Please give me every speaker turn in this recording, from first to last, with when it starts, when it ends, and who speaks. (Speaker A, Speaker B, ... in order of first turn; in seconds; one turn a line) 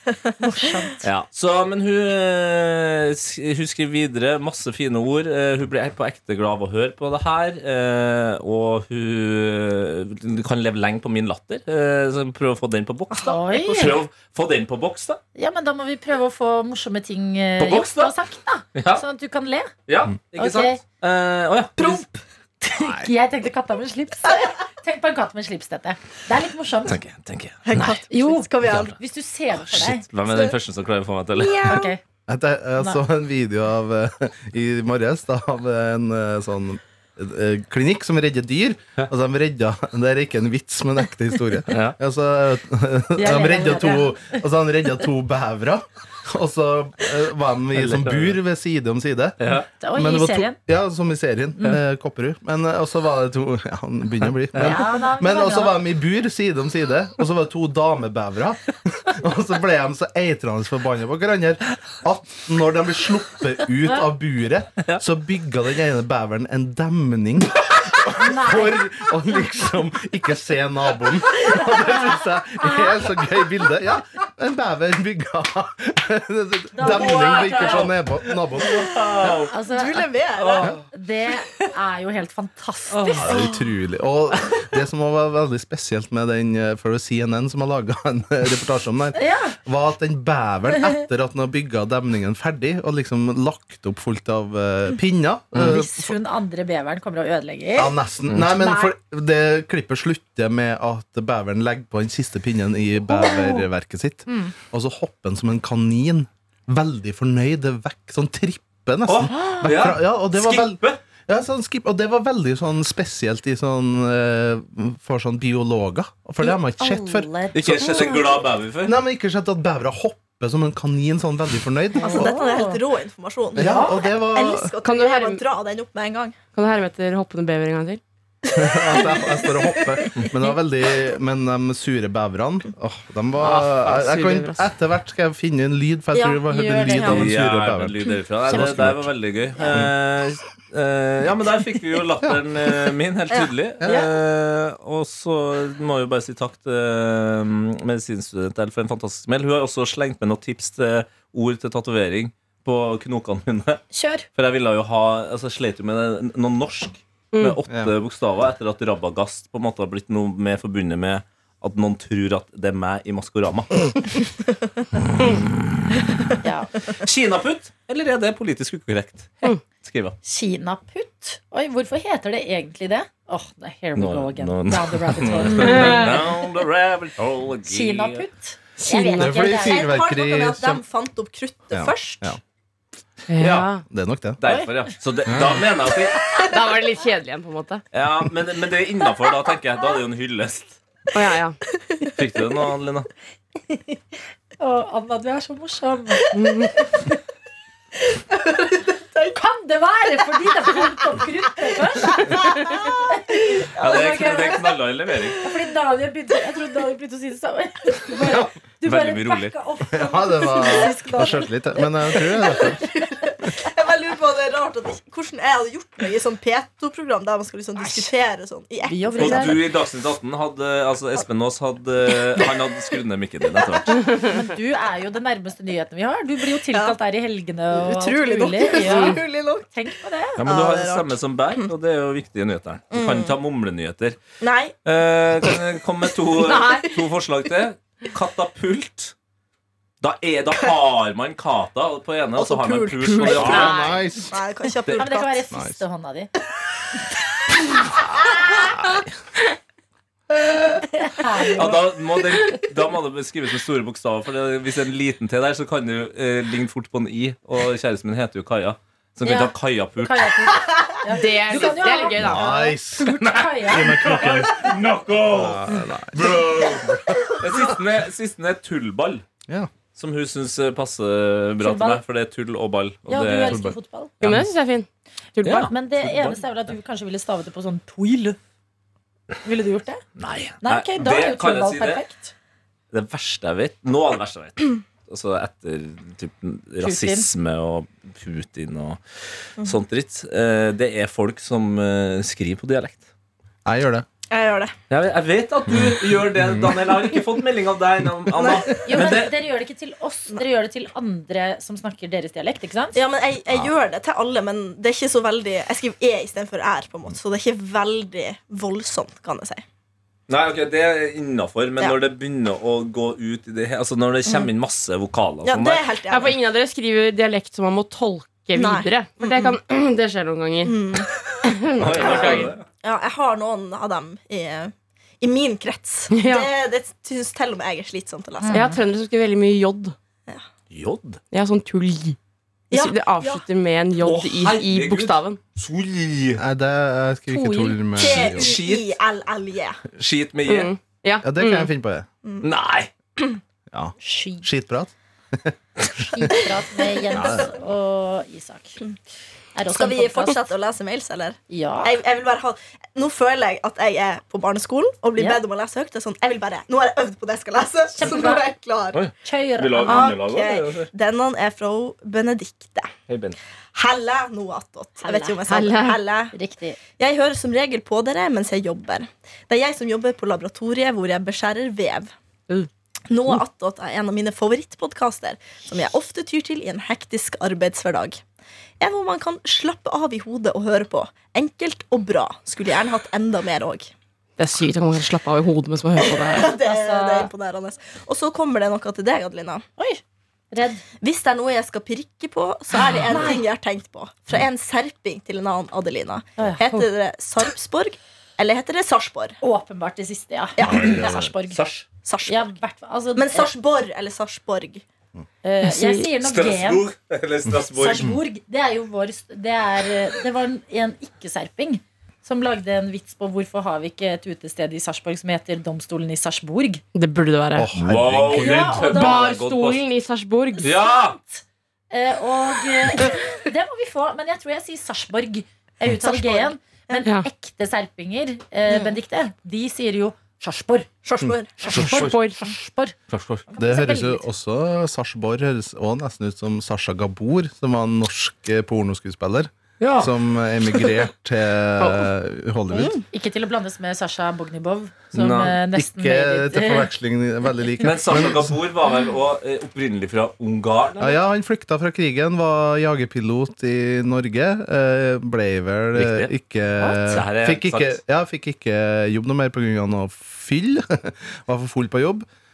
Speaker A: 0.4-1.0
Speaker B: 1.0-15.2
Speaker C: 13.1-13.8
Speaker A: 13.2-14.0
Speaker A: 15.3-19.7
Speaker B: 17.6-18.1
Speaker B: 18.7-19.0
Speaker B: 19.9-22.0
Speaker A: 20.3-20.8
Speaker C: 21.8-22.2
Speaker A: 22.6-26.9
Speaker B: 22.7-23.1
Speaker B: 26.9-28.0
Speaker C: 27.6-28.9
Speaker A: 28.1-30.0
Speaker B: 28.6-28.9
Speaker B: 29.6-31.7
Speaker C: 30.3-30.5
Speaker C: 31.3-31.9
Speaker A: 31.7-32.0
Speaker D: 32.3-78.9
Speaker B: 41.7-42.0
Speaker A: 43.2-44.3
Speaker B: 47.8-48.4
Speaker B: 49.4-49.7
Speaker A: 49.8-50.6
Speaker A: 54.6-55.8
Speaker A: 68.2-68.8
Speaker A: 71.6-73.1
Speaker A: 76.8-77.9
Speaker C: 77.1-77.4
Speaker B: 78.9-79.5
Speaker C: 78.9-80.8
Speaker A: 79.4-80.0
Speaker A: 80.7-83.4
Speaker D: 83.2-96.1
Speaker C: 83.2-83.6
Speaker A: 89.2-89.6
Speaker A: 95.6-98.0
Speaker D: 97.8-118.3
Speaker A: 98.5-98.9
Speaker A: 103.1-103.6
Speaker A: 104.3-104.5
Speaker B: 109.1-111.0
Speaker A: 109.3-109.6
Speaker A: 116.4-118.2
Speaker B: 117.5-119.0
Speaker D: 118.8-122.4
Speaker A: 122.0-122.8
Speaker C: 122.0-126.4
Speaker A: 123.5-124.0
Speaker D: 123.5-124.7
Speaker E: 124.8-125.4
Speaker E: 126.5-128.0
Speaker C: 128.4-130.2
Speaker D: 128.5-139.2
Speaker E: 133.4-134.6
Speaker C: 136.1-137.2
Speaker A: 136.5-137.1
Speaker B: 137.1-153.8
Speaker C: 143.3-144.0
Speaker A: 153.9-154.2
Speaker B: 154.3-164.2
Speaker B: 165.1-165.8
Speaker A: 166.4-166.7
Speaker B: 167.0-170.2
Speaker A: 170.2-176.1
Speaker B: 173.9-178.2
Speaker E: 175.6-176.1
Speaker A: 177.7-179.9
Speaker E: 178.9-179.2
Speaker C: 179.1-182.3
Speaker D: 179.2-180.8
Speaker D: 181.7-182.4
Speaker E: 183.3-183.8
Speaker B: 183.4-183.7
Speaker D: 183.9-184.4
Speaker B: 184.4-186.2
Speaker D: 185.2-185.7
Speaker E: 186.4-187.8
Speaker B: 187.9-190.8
Speaker E: 191.1-191.6
Speaker B: 192.1-193.1
Speaker A: 193.7-194.0
Speaker A: 194.6-196.2
Speaker E: 196.3-196.7
Speaker C: 198.3-199.4
Speaker A: 199.3-202.4
Speaker A: 203.1-204.7
Speaker B: 203.8-205.4
Speaker A: 205.4-211.6
Speaker D: 208.2-208.5
Speaker B: 208.8-209.5
Speaker D: 209.9-212.8
Speaker C: 212.5-219.6
Speaker A: 218.8-219.6
Speaker B: 219.2-224.0
Speaker A: 224.2-230.4
Speaker C: 227.7-229.7
Speaker E: 228.8-229.1
Speaker B: 230.4-234.2
Speaker C: 230.4-231.7
Speaker C: 232.9-233.3
Speaker C: 234.4-234.7
Speaker B: 234.8-239.1
Speaker E: 236.4-236.9
Speaker C: 236.4-236.7
Speaker B: 240.0-243.8
Speaker C: 242.3-245.4
Speaker D: 243.3-244.3
Speaker E: 243.5-244.0
Speaker A: 244.9-246.3
Speaker D: 245.5-245.8
Speaker A: 251.0-251.8
Speaker B: 251.5-260.3
Speaker A: 259.2-264.5
Speaker E: 261.1-262.5
Speaker D: 262.2-264.7
Speaker B: 263.2-266.9
Speaker D: 265.3-267.8
Speaker B: 267.4-269.2
Speaker B: 269.9-274.5
Speaker A: 271.6-272.0
Speaker A: 273.1-274.1
Speaker D: 273.5-273.8
Speaker E: 274.2-275.7
Speaker B: 275.4-276.3
Speaker A: 275.6-278.4
Speaker A: 279.4-280.0
Speaker B: 280.2-282.0
Speaker A: 280.6-282.3
Speaker B: 282.9-289.0
Speaker A: 286.8-287.3
Speaker B: 289.6-293.1
Speaker D: 293.6-294.1
Speaker C: 294.3-294.7
Speaker B: 294.9-299.3
Speaker D: 296.4-296.7
Speaker C: 298.3-299.2
Speaker A: 298.8-303.0
Speaker C: 302.9-309.6
Speaker B: 310.3-315.9
Speaker C: 315.4-316.4
Speaker E: 316.1-320.7
Speaker C: 318.5-319.6
Speaker C: 320.6-321.1
Speaker E: 321.4-322.5
Speaker B: 321.8-322.6
Speaker C: 321.9-328.6
Speaker E: 326.1-326.5
Speaker A: 328.4-328.8
Speaker E: 328.5-329.9
Speaker B: 330.7-331.2
Speaker E: 331.3-332.2
Speaker C: 332.7-333.4
Speaker E: 332.7-335.4
Speaker B: 334.0-336.4
Speaker D: 336.4-338.6
Speaker A: 337.3-337.8
Speaker C: 337.9-339.8
Speaker B: 338.0-339.0
Speaker B: 339.9-340.7
Speaker E: 340.5-341.7
Speaker D: 341.2-342.1
Speaker B: 342.4-342.9
Speaker D: 343.7-345.5
Speaker A: 344.0-344.4
Speaker A: 346.1-348.8
Speaker C: 347.1-347.4
Speaker D: 347.1-347.5
Speaker A: 349.5-350.4
Speaker C: 349.7-359.0
Speaker A: 351.5-351.9
Speaker A: 357.9-358.5
Speaker B: 358.9-360.9
Speaker A: 359.2-360.1
Speaker C: 359.8-362.9
Speaker B: 363.1-363.4
Speaker C: 363.7-366.3
Speaker A: 365.0-365.4
Speaker E: 365.5-366.0
Speaker A: 366.3-366.8
Speaker C: 367.0-372.1
Speaker C: 373.1-378.2
Speaker C: 378.8-383.9
Speaker E: 384.4-386.5
Speaker C: 386.0-389.6
Speaker A: 386.5-387.3
Speaker A: 390.5-390.8
Speaker C: 391.0-399.4
Speaker A: 393.1-393.4
Speaker A: 396.4-396.9
Speaker A: 399.4-401.6
Speaker C: 400.6-401.1
Speaker D: 400.6-401.2
Speaker B: 400.7-401.9
Speaker C: 402.0-402.5
Speaker A: 402.3-403.5
Speaker C: 403.1-404.8
Speaker A: 405.4-406.8
Speaker E: 405.6-406.1
Speaker B: 406.2-408.1
Speaker A: 407.7-416.8
Speaker E: 416.9-417.7
Speaker D: 417.6-418.9
Speaker B: 417.8-419.8
Speaker A: 418.3-419.3
Speaker E: 418.8-420.7
Speaker A: 420.6-430.9
Speaker B: 420.6-421.1
Speaker C: 425.9-427.0
Speaker C: 431.0-431.6
Speaker A: 431.6-432.9
Speaker B: 431.7-432.1
Speaker E: 431.8-432.4
Speaker B: 433.1-433.4
Speaker A: 433.5-434.2
Speaker D: 433.6-443.0
Speaker B: 439.8-440.1
Speaker C: 442.7-443.0
Speaker A: 443.1-446.9
Speaker B: 445.1-445.6
Speaker D: 445.7-448.6
Speaker B: 447.8-451.2
Speaker D: 451.0-462.2
Speaker B: 455.9-456.3
Speaker B: 457.1-458.0